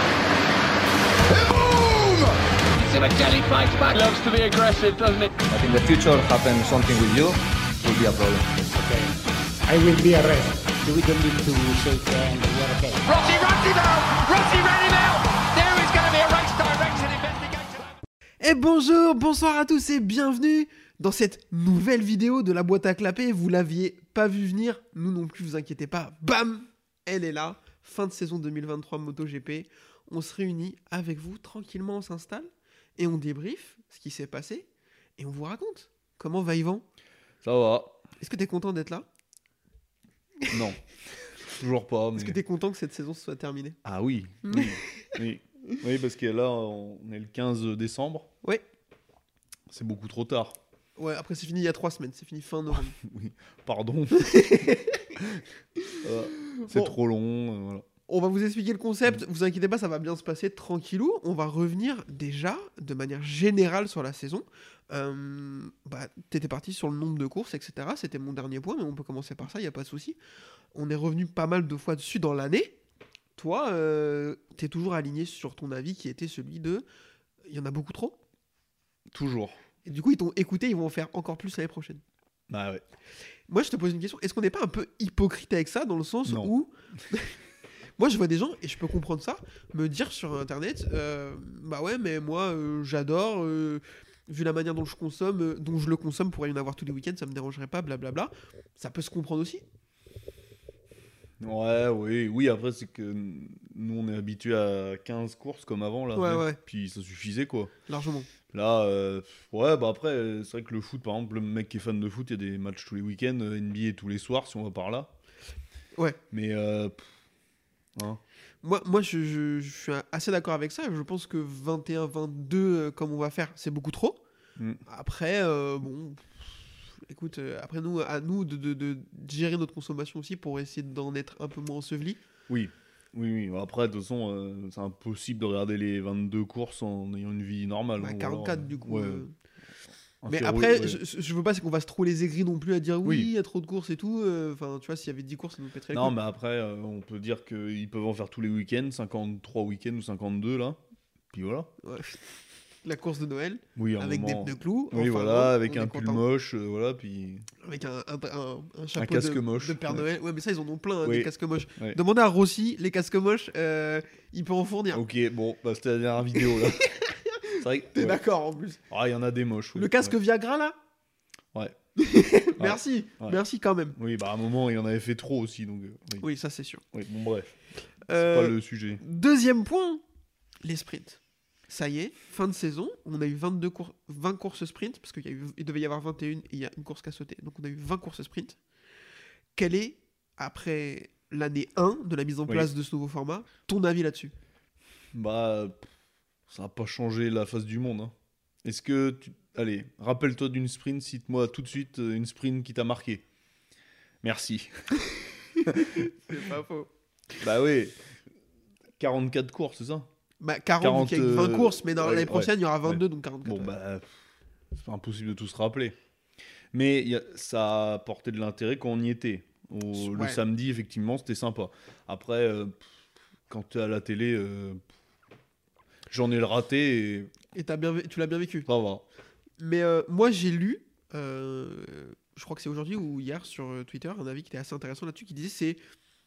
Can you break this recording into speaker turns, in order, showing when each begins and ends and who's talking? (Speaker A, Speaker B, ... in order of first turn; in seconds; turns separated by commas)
Speaker A: 1.3-5.3, Speaker B: 5.5-8.5, Speaker C: 8.7-9.1, Speaker C: 9.7-13.0, Speaker A: 13.1-17.9, Speaker D: 18.4-34.7, Speaker D: 35.2-36.8, Speaker E: 37.4-38.0, Speaker D: 38.2-39.0, Speaker E: 40.5-40.8, Speaker E: 41.4-42.4, Speaker D: 42.1-43.8, Speaker E: 43.8-48.3, Speaker D: 44.4-44.8, Speaker E: 49.7-50.6, Speaker D: 51.0-53.0, Speaker E: 53.0-54.4, Speaker D: 54.1-55.0, Speaker D: 55.9-56.9, Speaker E: 56.0-57.9, Speaker D: 58.1-70.2, Speaker D: 70.7-72.8, Speaker D: 73.4-76.8, Speaker D: 77.5-78.2, Speaker E: 79.1-79.6, Speaker D: 79.8-82.0, Speaker E: 82.5-82.8, Speaker D: 83.5-87.3, Speaker E: 86.2-86.5, Speaker D: 88.0-99.6, Speaker E: 101.4-107.7, Speaker D: 106.1-106.6, Speaker D: 107.9-108.3, Speaker E: 108.5-115.1, Speaker E: 116.3-117.1, Speaker E: 117.9-118.2, Speaker D: 118.6-124.2, Speaker D: 124.8-126.5, Speaker D: 127.0-132.2, Speaker E: 132.5-139.2, Speaker D: 138.0-139.3, Speaker E: 140.2-141.0, Speaker D: 140.3-146.2, Speaker E: 145.9-150.8, Speaker E: 151.3-151.7, Speaker D: 151.8-152.2, Speaker D: 152.8-156.2, Speaker E: 153.8-157.5, Speaker D: 157.6-165.0, Speaker E: 158.9-160.0, Speaker E: 161.0-162.0, Speaker E: 164.9-166.9, Speaker D: 166.8-168.8, Speaker E: 167.6-168.2, Speaker E: 168.9-170.1, Speaker D: 169.7-170.7, Speaker D: 172.0-173.9, Speaker E: 172.6-173.4, Speaker E: 173.9-176.2, Speaker D: 176.2-176.8, Speaker E: 176.9-177.5, Speaker D: 178.1-180.0, Speaker E: 178.1-179.0, Speaker D: 180.6-188.6, Speaker D: 189.5-194.3, Speaker E: 195.1-195.9, Speaker E: 196.5-198.1, Speaker E: 198.6-203.2, Speaker E: 204.2-204.9, Speaker E: 205.7-206.1, Speaker D: 205.7-206.9, Speaker E: 207.4-208.0, Speaker E: 209.0-210.1, Speaker D: 210.4-213.7, Speaker E: 210.8-214.2, Speaker E: 214.7-215.9, Speaker E: 216.7-222.8, Speaker D: 219.9-220.4, Speaker E: 223.5-224.8, Speaker E: 226.1-227.3, Speaker D: 227.5-228.7, Speaker E: 228.7-229.0, Speaker D: 229.6-235.8